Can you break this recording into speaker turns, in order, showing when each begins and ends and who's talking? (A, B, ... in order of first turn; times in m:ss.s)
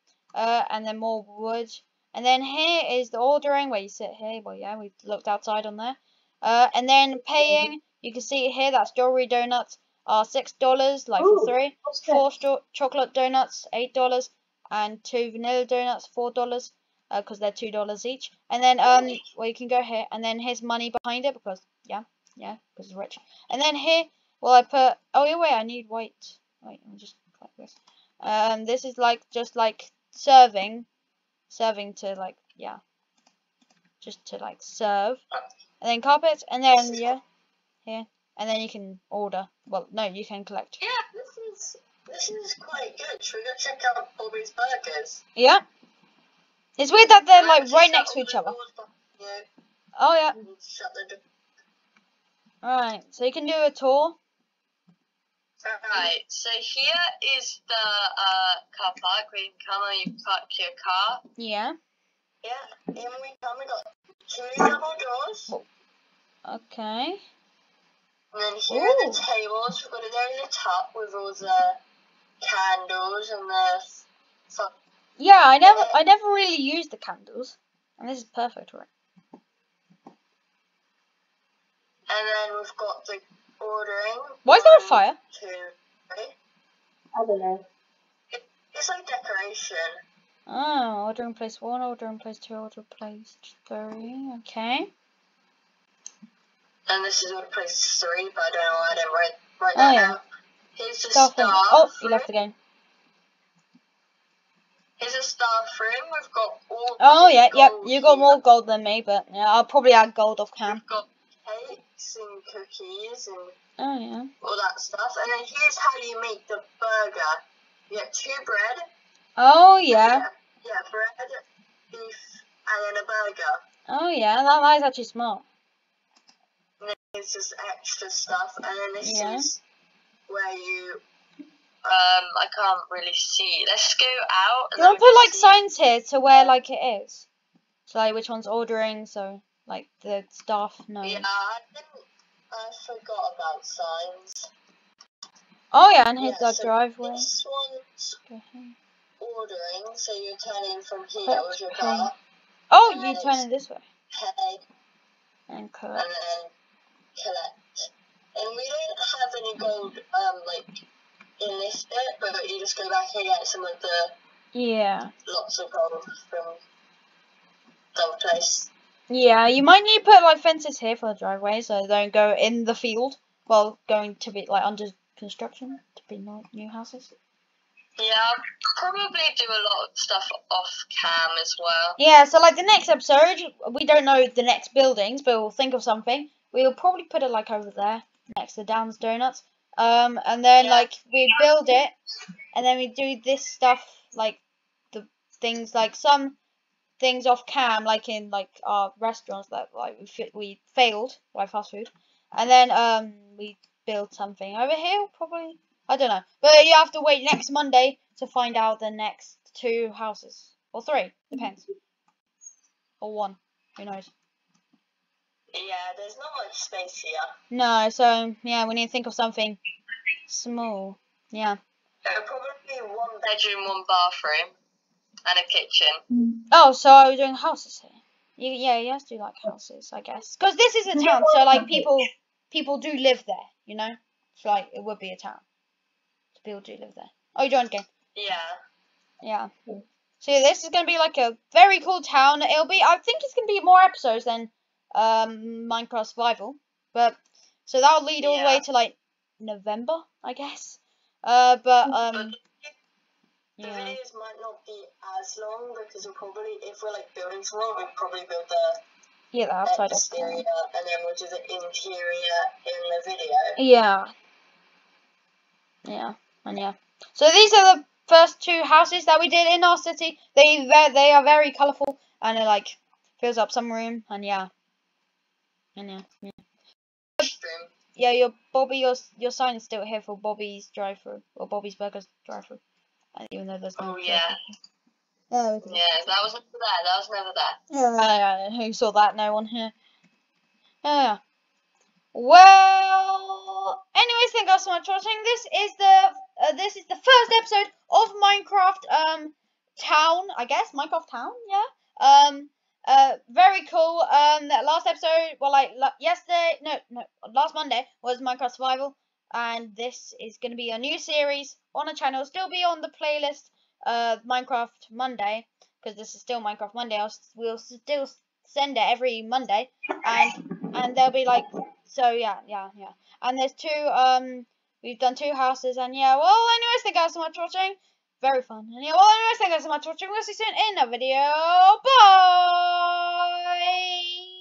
0:00.3-0:30.9 A
0:07.4-0:07.7 B
0:11.2-0:12.2 B
0:18.9-0:19.2 C
0:31.5-0:32.8 A
0:34.0-0:35.2 A
0:35.8-0:37.2 A
0:36.7-0:37.2 C
0:37.8-0:40.8 A
0:40.8-0:45.2 C
0:45.4-0:45.6 A
0:46.8-0:48.6 A
0:47.3-0:49.5 C
0:50.0-0:50.4 A
0:50.4-0:51.2 C
0:52.6-0:54.2 A
0:55.6-1:01.2 C
1:01.4-1:01.7 A
1:02.4-1:05.5 C
1:06.4-1:07.2 A
1:08.3-1:11.8 C
1:08.7-1:09.2 A
1:12.4-1:14.7 C
1:15.2-1:18.9 A
1:15.6-1:16.0 C
1:22.1-1:26.3 C
1:24.4-1:25.2 A
1:27.1-1:27.6 B
1:28.3-1:29.9 C
1:30.5-1:34.9 A
1:36.9-1:40.2 C
1:39.7-1:40.2 A
1:40.8-1:42.3 C
1:41.1-1:42.5 A
1:45.0-1:48.4 C
1:47.0-1:50.8 A
1:50.6-1:53.5 C
1:53.8-1:54.3 A
1:54.4-1:58.8 C
1:59.4-2:00.2 A
1:59.9-2:03.6 C
2:03.9-2:05.4 A
2:06.8-2:09.6 C
2:09.0-2:09.5 A
2:10.3-2:11.0 C
2:11.8-2:15.5 C
2:14.8-2:17.3 A
2:17.9-2:21.2 A
2:21.0-2:24.5 C
2:25.7-2:27.3 A
2:26.2-2:28.2 C
2:28.3-2:28.8 A
2:29.2-2:32.1 C
2:31.2-2:32.1 A
2:32.7-2:33.8 A
2:32.8-2:33.4 C
2:34.1-2:34.6 C
2:35.5-2:36.0 A
2:35.9-2:36.5 C
2:37.2-2:40.8 C
2:41.4-2:44.1 C
2:44.5-2:45.1 A
2:45.2-2:46.6 C
2:47.9-2:48.7 C
2:49.1-2:57.1 A
2:58.0-3:02.0 C
3:02.0-3:11.9 A
3:10.6-3:11.4 C
3:12.5-3:14.4 A
3:14.9-3:16.4 A
3:17.0-3:31.7 A
3:33.0-3:34.1 A
3:35.5-3:37.3 C
3:37.5-3:39.6 A
3:40.3-3:41.6 A
3:42.0-3:44.5 C
3:45.2-3:46.0 C
3:46.1-3:46.4 B
3:46.5-3:55.4 A
3:51.0-3:51.9 B
3:56.3-3:57.9 A
3:58.1-3:58.6 C
3:59.2-3:59.5 A
4:00.2-4:12.4 A
4:08.2-4:08.6 C
4:12.1-4:12.7 C
4:13.6-4:14.0 A
4:13.6-4:18.8 C
4:19.3-4:20.4 A
4:19.6-4:23.6 C
4:23.6-4:24.1 A
4:25.8-4:34.5 A
4:35.8-4:36.4 A
4:37.2-4:37.7 C
4:38.0-4:42.6 A
4:43.1-4:44.4 A
4:43.8-4:44.4 C
4:45.3-4:45.8 A
4:45.6-4:47.6 C
4:47.7-4:49.7 A
4:50.8-4:51.2 A
4:52.1-5:33.1 A